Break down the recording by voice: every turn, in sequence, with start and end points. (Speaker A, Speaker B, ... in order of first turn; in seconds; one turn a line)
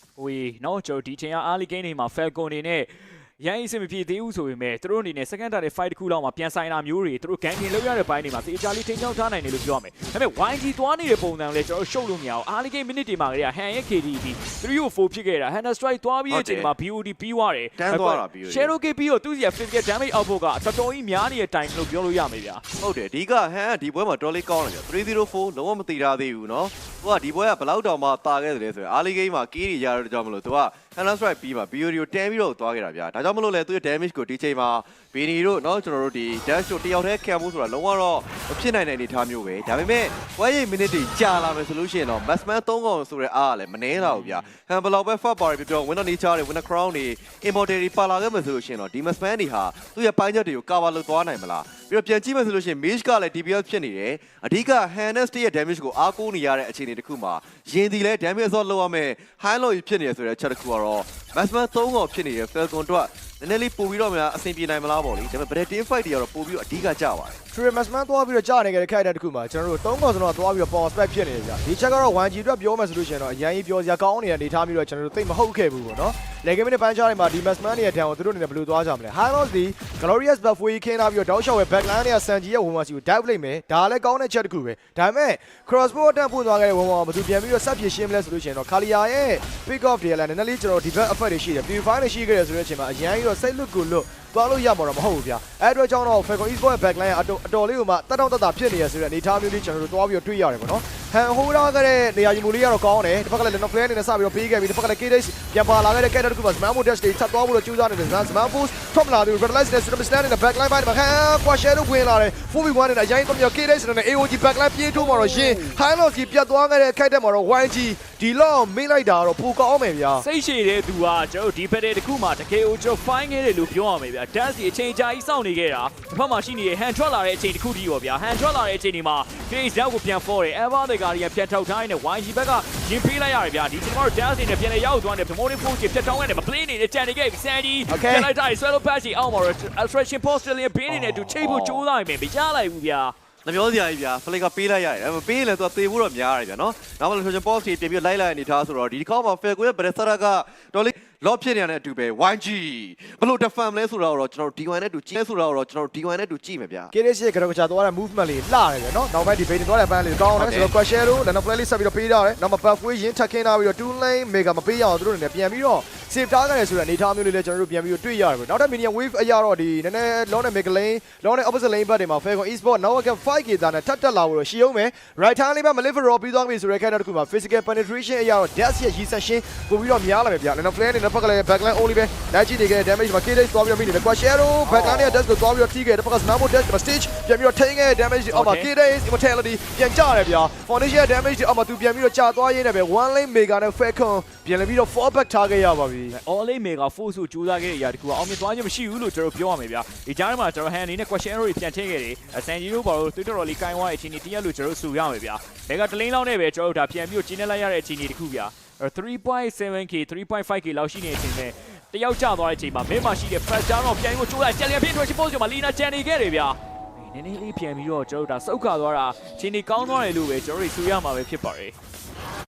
Speaker A: 0.2-22.6
Speaker B: 16.3-16.7
Speaker B: 17.8-18.7
Speaker B: 22.8-67.3
Speaker A: 44.0-44.5
Speaker C: 67.5-120.2
Speaker A: 114.9-115.8
Speaker A: 120.2-143.1
Speaker C: 137.9-138.3
Speaker C: 140.9-141.3
Speaker B: 141.3-141.8
Speaker B: 143.4-156.9
Speaker C: 156.9-196.2
Speaker B: 160.3-160.7
Speaker B: 184.6-185.2
Speaker A: 188.3-188.7
Speaker A: 196.1-221.7